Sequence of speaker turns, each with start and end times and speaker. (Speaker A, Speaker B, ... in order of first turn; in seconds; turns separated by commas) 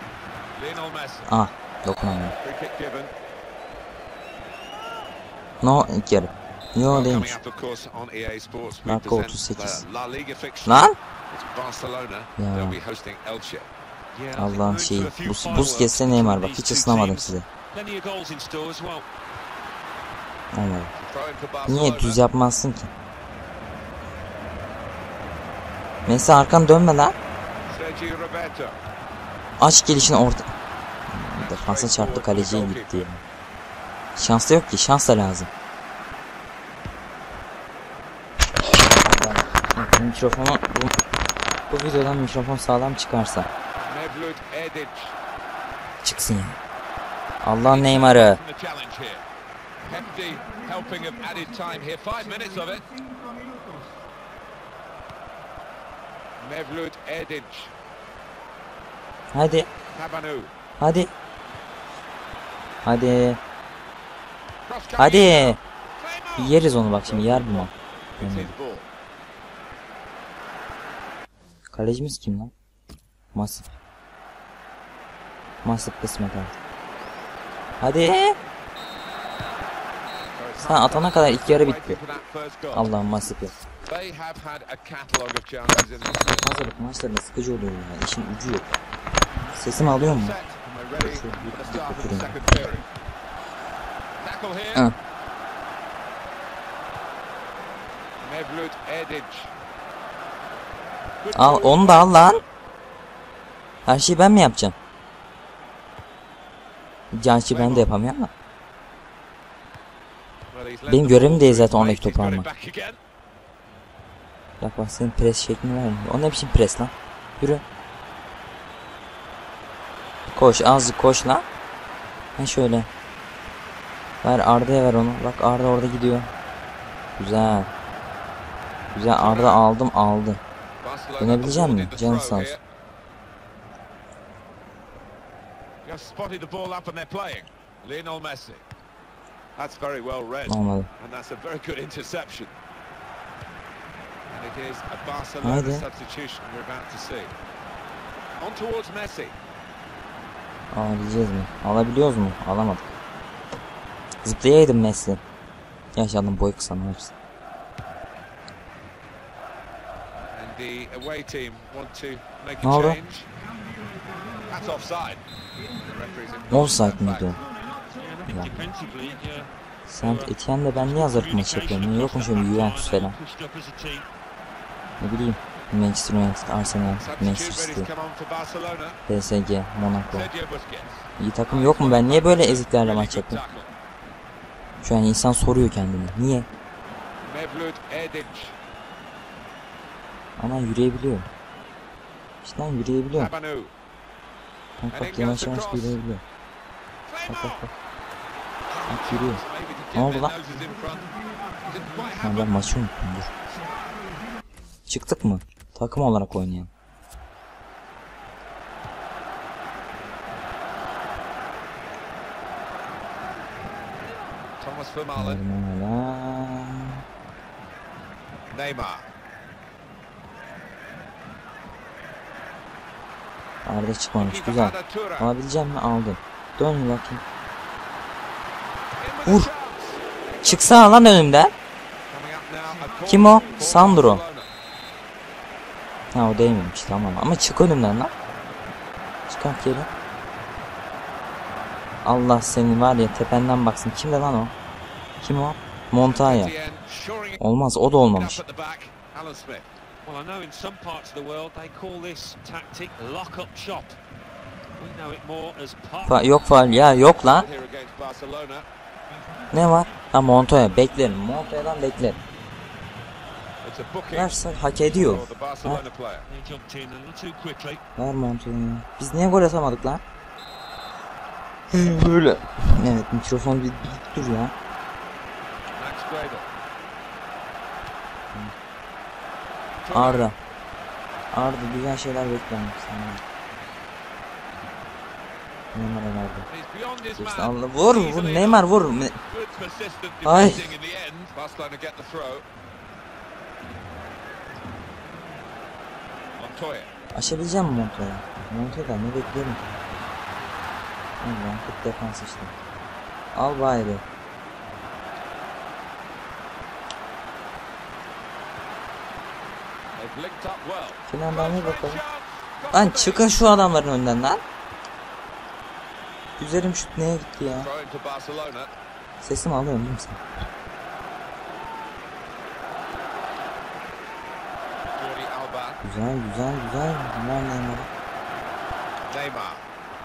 Speaker A: 0.6-1.3, Speaker B: 1.3-2.4, Speaker A: 2.4-3.1, Speaker B: 5.6-7.3, Speaker A: 6.8-13.7, Speaker B: 8.8-9.8, Speaker B: 10.7-11.0, Speaker B: 12.4-12.8, Speaker C: 14.2-19.1, Speaker B: 14.4-17.5, Speaker B: 20.5-20.9, Speaker A: 20.9-22.2, Speaker B: 21.7-22.9, Speaker B: 26.1-27.1, Speaker A: 27.7-28.8, Speaker B: 29.6-30.5, Speaker B: 31.1-33.2, Speaker A: 31.3-33.1, Speaker B: 34.2-35.5, Speaker B: 38.9-41.0, Speaker B: 41.7-43.5, Speaker A: 43.9-45.2, Speaker B: 46.0-46.6, Speaker B: 47.4-48.4, Speaker A: 47.6-49.2, Speaker A: 49.8-52.9, Speaker A: 56.4-57.7, Speaker B: 59.3-59.7, Speaker A: 59.9-60.5, Speaker B: 60.8-61.1, Speaker B: 62.8-63.4, Speaker A: 64.7-68.9, Speaker B: 65.0-65.6, Speaker B: 66.4-68.5, Speaker B: 71.7-72.5, Speaker B: 73.3-73.8, Speaker B: 75.6-76.5, Speaker B: 77.8-78.4, Speaker A: 80.3-82.9, Speaker B: 80.6-82.0, Speaker B: 82.7-83.5, Speaker A: 83.9-86.4, Speaker B: 86.4-88.7, Speaker B: 89.5-90.4, Speaker A: 89.7-92.8, Speaker B: 91.0-92.6, Speaker A: 94.2-94.9, Speaker A: 98.2-99.5, Speaker A: 101.2-102.5, Speaker B: 101.3-102.4, Speaker B: 103.9-104.8, Speaker B: 107.1-108.3, Speaker A: 107.5-107.9, Speaker A: 110.5-113.0, Speaker B: 110.9-112.5, Speaker B: 114.6-117.6, Speaker B: 120.3-121.5, Speaker B: 122.4-122.9, Speaker B: 124.2-126.3, Speaker B: 127.2-127.7, Speaker B: 128.9-130.4, Speaker A: 129.1-129.6, Speaker A: 130.8-132.6, Speaker B: 131.2-132.5, Speaker A: 135.8-138.7, Speaker A: 139.6-142.6, Speaker B: 140.5-140.9, Speaker A: 144.3-147.3, Speaker B: 145.4-145.8, Speaker A: 148.4-149.4, Speaker B: 150.7-152.9, Speaker B: 154.2-155.2, Speaker B: 155.9-157.1, Speaker A: 160.3-163.3, Speaker B: 162.6-163.0, Speaker A: 164.4-167.4, Speaker B: 166.5-167.4, Speaker C: 167.9-174.1, Speaker B: 168.3-168.7, Speaker B: 169.9-173.2, Speaker B: 175.0-177.9, Speaker A: 177.0-179.0, Speaker B: 179.1-180.3, Speaker A: 180.0-183.7, Speaker B: 181.2-183.4, Speaker B: 184.8-186.5, Speaker A: 187.2-188.6, Speaker B: 190.4-191.3, Speaker B: 192.4-193.3, Speaker A: 193.1-193.7, Speaker B: 194.8-196.2, Speaker A: 194.9-196.0, Speaker A: 197.1-197.7, Speaker B: 197.3-197.7, Speaker A: 198.7-202.6, Speaker B: 198.9-199.4, Speaker B: 199.9-200.4, Speaker B: 202.2-203.3, Speaker B: 204.9-206.7, Speaker A: 214.6-215.4, Speaker B: 215.2-217.0, Speaker A: 218.5-219.1, Speaker B: 223.7-227.2, Speaker A: 224.2-225.3, Speaker A: 229.0-230.9, Speaker B: 230.4-231.5, Speaker A: 232.1-234.5, Speaker B: 233.1-234.2, Speaker B: 236.1-238.1, Speaker B: 239.3-239.9, Speaker B: 242.0-244.5, Speaker B: 245.2-246.5, Speaker A: 246.0-247.4, Speaker B: 247.4-248.4, Speaker A: 248.1-249.7, Speaker C: 250.1-254.0, Speaker C: 254.8-256.5, Speaker B: 256.0-257.5, Speaker A: 257.1-258.7, Speaker B: 259.5-262.2, Speaker A: 263.6-266.3, Speaker B: 264.1-265.8, Speaker C: 266.3-267.8, Speaker B: 268.0-270.0, Speaker B: 271.7-274.5, Speaker A: 275.8-276.5, Speaker A: 279.8-280.3, Speaker B: 279.9-280.4, Speaker B: 281.3-283.2, Speaker B: 285.7-286.5, Speaker A: 286.5-288.7, Speaker B: 287.2-289.2, Speaker A: 289.2-292.5, Speaker B: 290.2-290.7, Speaker A: 296.4-296.9, Speaker B: 297.1-299.6, Speaker B: 301.2-302.5, Speaker B: 303.3-304.0, Speaker A: 310.0-313.3, Speaker B: 311.1-312.0, Speaker B: 312.7-314.4, Speaker B: 316.4-317.7, Speaker A: 317.5-318.7, Speaker B: 319.2-320.2, Speaker A: 324.9-325.8, Speaker B: 325.8-327.9, Speaker A: 329.1-329.7